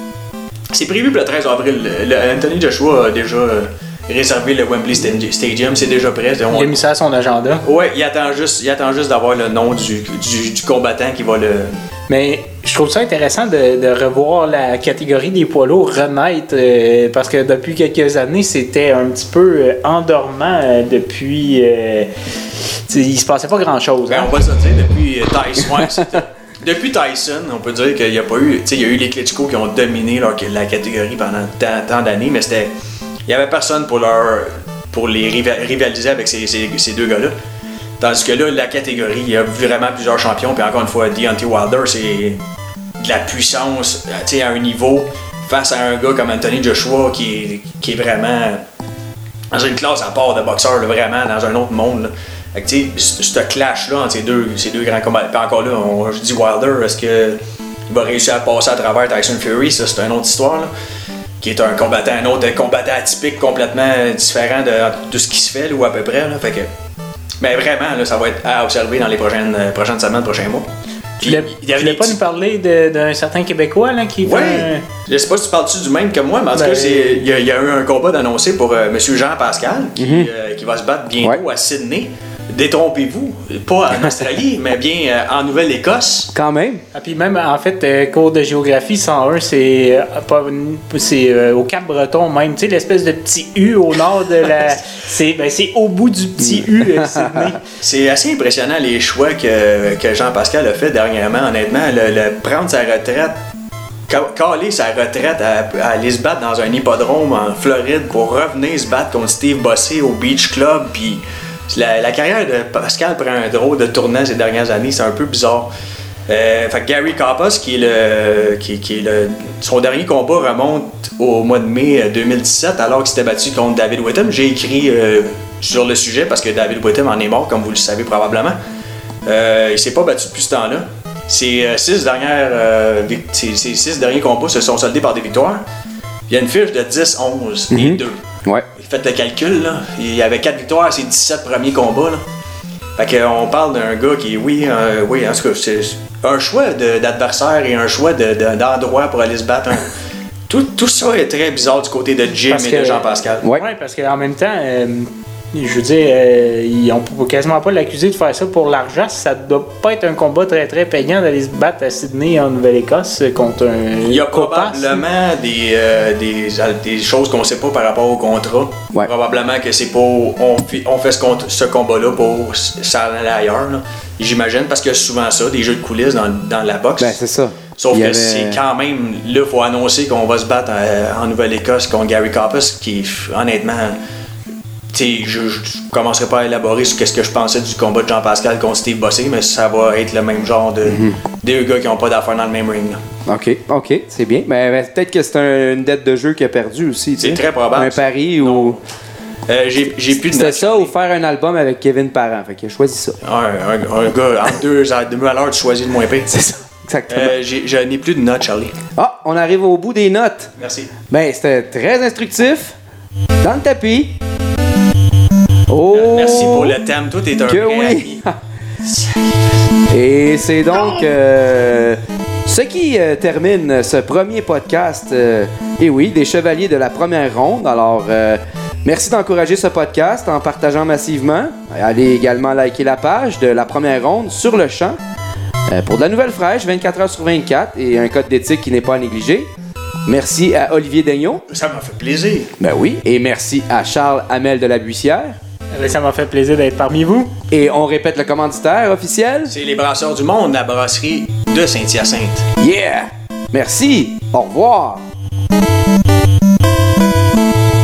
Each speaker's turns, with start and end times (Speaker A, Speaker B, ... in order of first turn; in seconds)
Speaker A: 0.7-6.8, 7.6-11.7, 24.1-32.7, 33.3-37.4, 38.0-42.4, 43.0-48.6, 49.5-60.7, 61.4-66.7, 67.4-72.2, 74.2-86.3, 97.8-103.4, 104.1-115.7, 116.3-128.6, 129.3-135.6, 136.3-138.2, 138.8-142.2, 143.0-149.9, 150.5-153.5, 164.0-177.2, 177.8-184.0, 184.9-193.0, 197.2-198.8, 199.5-200.9, 203.2-206.4, 207.1-208.8, 210.6-210.9, 215.9-218.2, 218.8-219.2, 241.5-242.5, 249.5-252.5
Speaker B: 6.5-7.6, 12.1-22.1, 22.9-24.3, 71.2-74.8, 76.5-77.2, 86.9-97.6, 152.5-165.0, 245.7-247.3
Speaker C: 80.0-80.3, 86.3-86.8, 96.4-97.5, 137.7-138.7, 177.0-178.6, 190.8-191.2, 193.3-198.8, 200.2-203.2, 206.3-207.3, 209.0-210.5, 211.1-212.8, 213.4-214.2, 215.7-216.8, 217.5-218.4, 219.9-235.0, 235.7-239.5, 240.1-241.4, 242.6-245.4, 247.5-249.6, 252.6-255.0